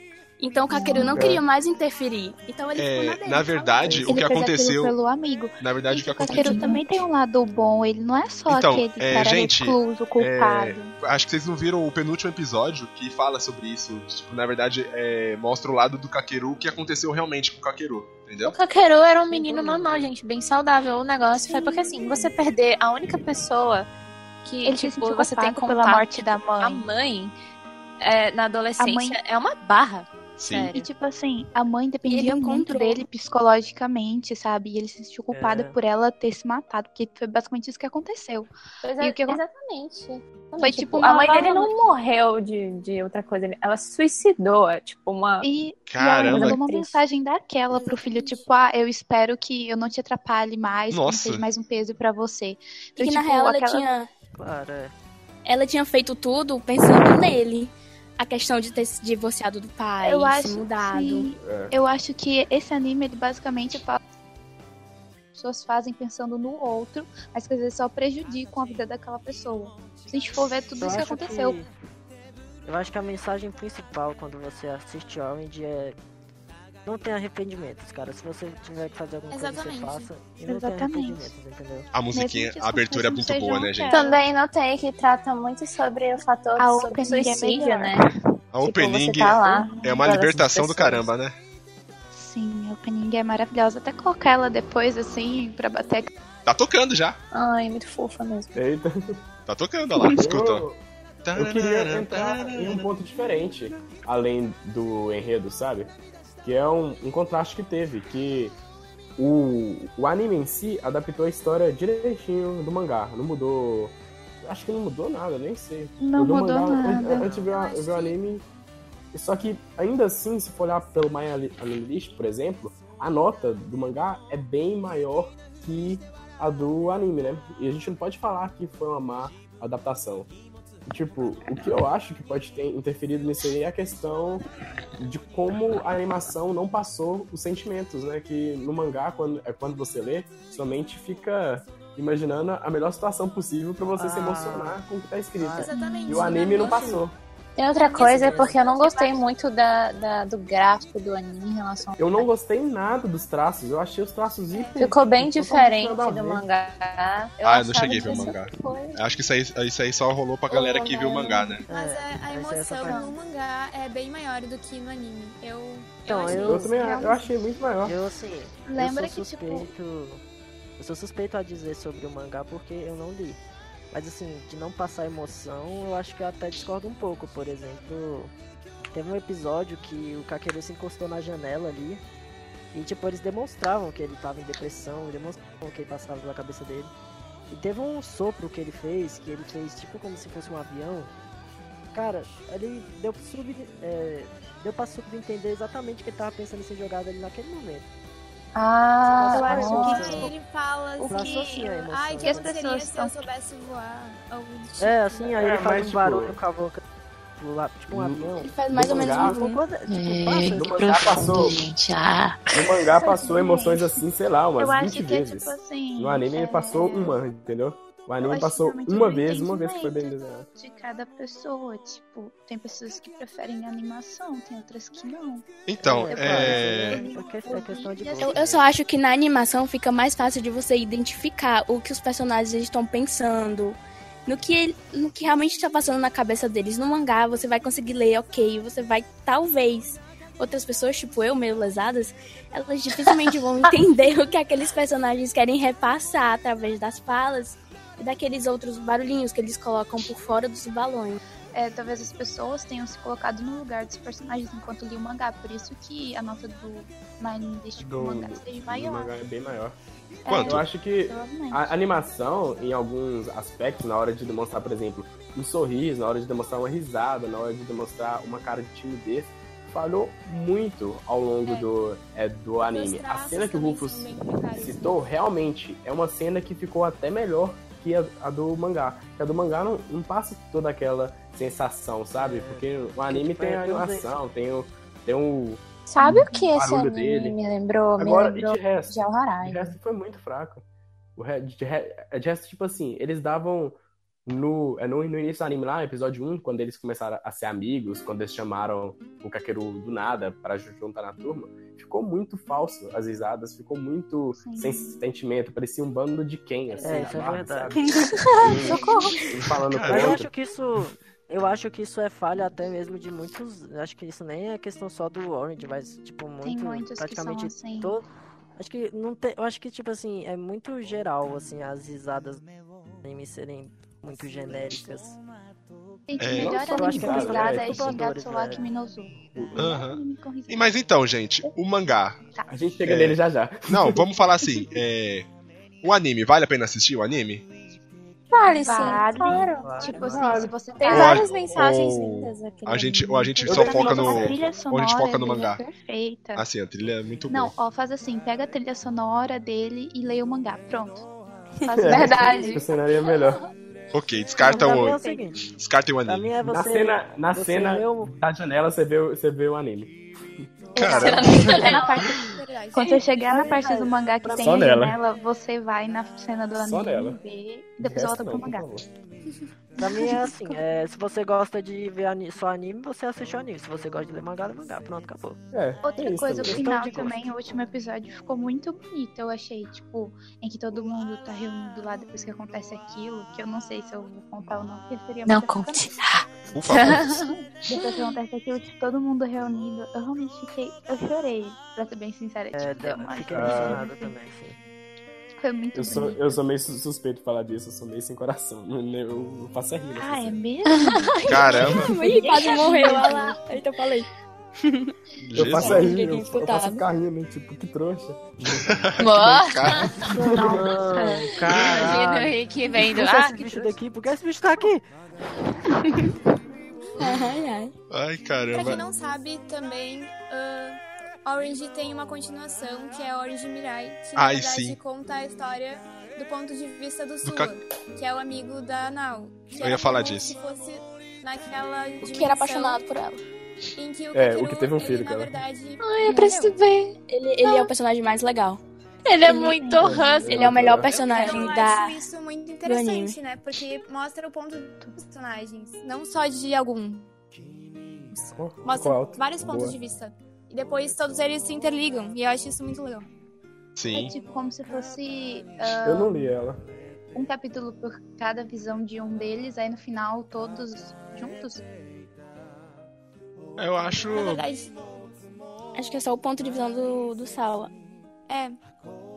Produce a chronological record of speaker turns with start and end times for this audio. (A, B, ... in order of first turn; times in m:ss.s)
0:00.4-0:04.4 A
0:00.7-0:01.4 B
0:01.0-0:01.4 C
0:02.8-0:04.9 D
0:04.0-0:10.9 B
0:05.6-0:06.7 D
0:06.3-0:06.8 A
0:08.5-0:18.6 D
0:18.4-0:23.9 E
0:19.3-0:20.1 F
0:21.4-0:22.3 B
0:24.4-0:27.3 E
0:24.6-0:26.9 B
0:28.0-0:30.9 E
0:28.8-0:29.2 B
0:30.4-0:30.7 D
0:30.7-0:38.5 B
0:32.1-0:33.0 A
0:35.3-0:35.7 F
0:38.8-0:45.5 E
0:39.0-0:39.4 B
0:40.6-0:41.7 B
0:45.4-0:53.9 B
0:45.9-0:46.6 D
0:46.3-0:47.0 E
0:47.8-0:48.4 E
0:50.9-0:51.4 D
0:53.0-0:54.1 A
0:54.4-0:54.9 F
0:55.4-1:01.3 A
1:00.0-1:04.0 B
1:01.4-1:01.7 C
1:05.4-1:11.6 B
1:10.8-1:11.7 F
1:12.6-1:16.0 F
1:16.8-1:21.9 F
1:19.3-1:20.1 G
1:20.4-1:21.3 B
1:21.9-1:24.0 D
1:22.1-1:24.2 B
1:23.8-1:28.1 E
1:26.6-1:28.0 B
1:28.5-1:31.4 D
1:28.6-1:31.1 E
1:29.4-1:29.8 B
1:32.1-1:36.1 B
1:36.4-1:37.2 D
1:37.3-1:38.6 E
1:38.5-1:39.2 C
1:39.5-1:40.6 D
1:40.1-1:40.8 C
1:41.2-1:42.9 D
1:41.4-1:48.6 C
1:49.2-1:58.4 C
1:56.0-1:57.3 B
1:57.0-1:58.2 G
1:59.1-2:10.3 C
2:10.9-2:14.4 C
2:15.0-2:27.1 C
2:24.0-2:24.8 F
2:25.4-2:25.7 F
2:25.6-2:27.0 G
2:25.7-2:26.4 B
2:26.5-2:27.0 F
2:27.6-2:32.3 E
2:27.8-2:29.0 G
2:27.9-2:29.2 B
2:28.1-2:28.6 F
2:32.0-2:36.4 C
2:34.5-2:34.9 G
2:34.8-2:39.0 E
2:37.4-2:41.6 D
2:40.5-2:46.7 G
2:41.7-2:43.0 F
2:42.9-2:43.1 B
2:46.1-2:46.7 F
2:46.1-2:46.5 E
2:46.3-2:48.0 C
2:46.5-2:47.3 B
2:47.8-2:50.2 F
2:48.6-2:49.7 B
2:50.8-2:53.4 F
2:53.9-2:58.3 F
2:58.9-3:02.0 F
3:02.7-3:06.9 F
3:07.5-3:11.1 F
3:11.9-3:17.9 F
3:18.5-3:20.2 E
3:19.2-3:20.3 F
3:19.3-3:20.3 B
3:19.7-3:25.4 G
3:21.0-3:22.5 F
3:21.0-3:21.7 B
3:22.2-3:23.3 B
3:24.8-3:26.8 F
3:25.4-3:26.4 C
3:27.4-3:28.5 F
3:27.9-3:29.4 C
3:28.4-3:29.6 A
3:29.1-3:30.8 F
3:29.9-3:32.7 E
3:30.5-3:31.6 C
3:32.5-3:40.5 C
3:33.0-3:34.0 B
3:34.6-3:37.2 B
3:38.2-3:45.4 B
3:45.7-3:47.0 D
3:45.8-3:48.6 F
3:46.1-3:48.5 B
3:48.2-4:11.2 A
4:11.5-4:19.2 B
4:17.8-4:19.8 C
4:20.2-4:21.7 B
4:20.3-4:20.6 D
4:20.4-4:47.4 C
4:32.6-4:35.0 G
4:42.2-4:44.2 F
4:45.9-4:49.8 E
4:48.0-4:50.6 C
4:51.2-5:10.3 C
5:04.4-5:05.0 B
5:06.8-5:07.2 B
5:06.8-5:07.7 F
5:08.4-5:09.2 E
5:09.7-5:10.2 D
5:09.9-5:18.0 F
5:16.4-5:18.0 B
5:18.6-5:22.4 F
5:23.0-5:25.2 F
5:26.1-5:30.9 B
5:26.2-5:26.6 D
5:26.3-5:28.0 C
5:26.6-5:28.7 F
5:29.3-5:29.7 C
5:29.6-5:32.2 D
5:32.5-5:34.0 C
5:32.9-5:33.2 D
5:33.7-5:35.3 D
5:35.8-5:37.4 D
5:38.3-5:43.2 E
5:38.5-5:41.3 B
5:39.6-5:40.0 F
5:40.0-5:41.2 C
5:40.9-5:45.6 D
5:43.2-5:46.4 B
5:43.4-5:44.4 C
5:46.4-5:47.5 D
5:47.3-5:51.1 B
5:51.6-5:52.7 B
5:51.7-5:53.4 C
5:51.8-5:53.2 E
5:53.9-5:56.3 D
5:54.4-5:55.4 F
5:56.0-5:58.1 F
5:56.4-6:00.0 C
6:00.7-6:08.6 B
6:00.8-6:01.6 D
6:00.9-6:02.3 E
6:01.4-6:03.9 G
6:03.4-6:04.6 F
6:04.4-6:05.0 C
6:06.6-6:07.2 C
6:07.8-6:08.9 C
6:09.8-6:15.4 F
6:10.1-6:10.5 B
6:15.5-6:17.1 C
6:15.8-6:26.0 B
6:16.4-6:17.1 F
6:25.2-6:27.8 E
6:26.5-6:27.2 D
6:26.8-6:34.1 B
6:32.5-6:34.6 F
6:33.3-6:33.8 C
6:35.4-6:36.4 B
6:35.7-6:40.4 C
6:40.0-6:43.4 B
6:40.6-6:41.2 E
6:41.2-6:44.1 A
6:41.3-6:41.9 D
6:41.5-6:41.9 C
6:41.8-6:43.4 E
6:44.6-6:44.9 A
6:45.2-6:45.9 D
6:45.4-6:48.9 C
6:45.5-6:46.8 A
6:48.6-6:50.0 D
6:49.0-6:53.8 E
6:50.0-6:54.8 F
6:50.2-6:51.2 B
6:51.5-6:51.9 D
6:57.0-6:57.7 A
6:57.9-6:58.8 D
6:58.5-7:12.8 G
7:04.1-7:04.8 D
7:07.2-7:07.5 D
7:09.6-7:10.4 D
7:12.0-7:13.2 A
7:13.8-7:16.6 G
7:14.1-7:15.4 C
7:15.8-7:17.0 E
7:17.1-7:18.6 A
7:19.0-7:20.5 E
7:19.2-7:20.1 B
7:19.8-7:20.9 C
7:20.2-7:22.0 A
7:20.9-7:27.1 G
7:22.6-7:23.2 A
7:28.1-7:33.1 G
7:28.3-7:29.8 C
7:33.8-7:34.1 D
7:33.9-7:36.3 B
7:35.8-7:36.6 C
7:37.1-7:41.6 B
7:43.6-7:44.4 D
7:44.1-7:44.7 G
7:45.7-7:47.7 A
7:48.3-7:48.6 G